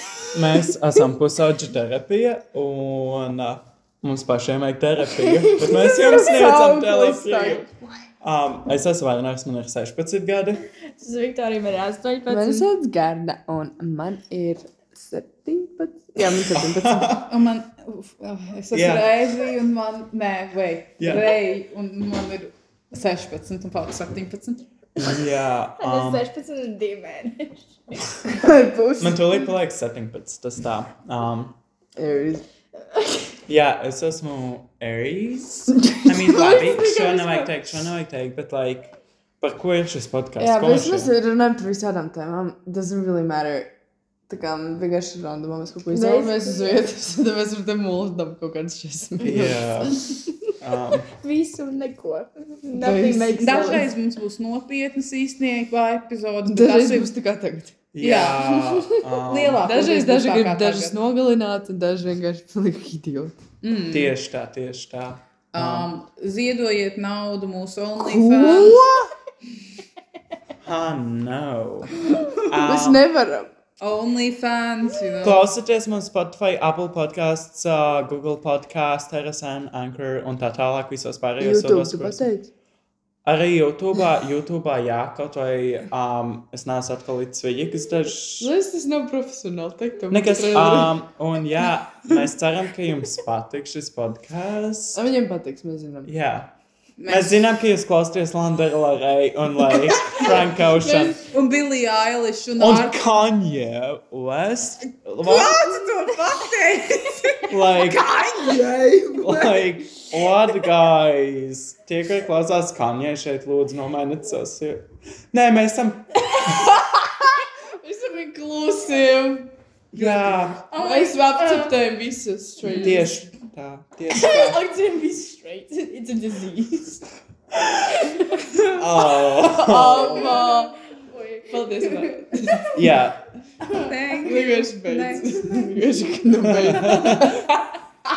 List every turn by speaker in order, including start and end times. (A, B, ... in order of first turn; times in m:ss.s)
0:00.3-0:07.6 A
0:05.2-0:06.2 B
0:05.9-0:07.7 C
0:08.2-0:10.6 A
0:10.9-0:12.7 B
0:12.3-0:17.2 C
0:16.2-0:17.2 A
0:17.2-0:24.6 D
0:18.7-0:19.4 A
0:21.0-0:21.3 A
0:25.0-0:26.3 A
0:25.8-0:28.2 B
0:28.2-0:29.3 C
0:29.0-0:31.6 A
0:32.0-0:32.4 C
0:33.4-0:38.9 A
0:36.3-0:37.5 B
0:39.4-0:41.1 A
0:40.4-0:43.7 C
0:44.3-0:49.9 C
0:45.9-0:46.8 B
0:49.2-0:50.0 A
0:50.6-0:51.1 A
0:51.0-0:53.8 B
0:52.7-0:53.8 C
0:53.4-0:57.1 D
0:56.4-0:57.7 C
0:57.9-0:59.7 A
0:58.0-1:00.9 D
0:58.5-0:59.0 C
0:59.6-1:03.3 C
1:03.6-1:04.1 D
1:03.9-1:05.9 A
1:05.5-1:08.8 D
1:08.0-1:09.1 C
1:10.6-1:13.1 A
1:12.6-1:13.5 C
1:13.8-1:15.5 D
1:15.2-1:22.3 A
1:21.4-1:22.5 C
1:23.2-1:28.5 A
1:28.4-1:31.0 C
1:30.1-1:35.0 A
1:34.9-1:36.1 C
1:36.0-1:36.5 A
1:37.0-1:37.4 D
1:37.1-1:41.2 A
1:39.9-1:40.8 C
1:41.2-1:43.0 D
1:42.6-1:45.8 A
1:45.2-1:49.1 D
1:47.5-1:48.1 A
1:48.8-1:49.3 C
1:49.1-1:56.7 A
1:56.3-1:56.6 B
1:56.8-1:57.2 C
1:57.8-2:03.1 C
1:59.9-2:00.7 A
2:00.0-2:01.8 D
2:02.6-2:03.0 D
2:02.7-2:04.7 A
2:04.1-2:07.0 B
2:07.5-2:10.4 A
2:08.0-2:08.6 B
2:09.3-2:12.7 B
2:09.6-2:10.8 C
2:11.5-2:12.8 C
2:12.7-2:13.2 A
2:13.6-2:17.1 D
2:13.7-2:17.5 C
2:16.4-2:17.3 A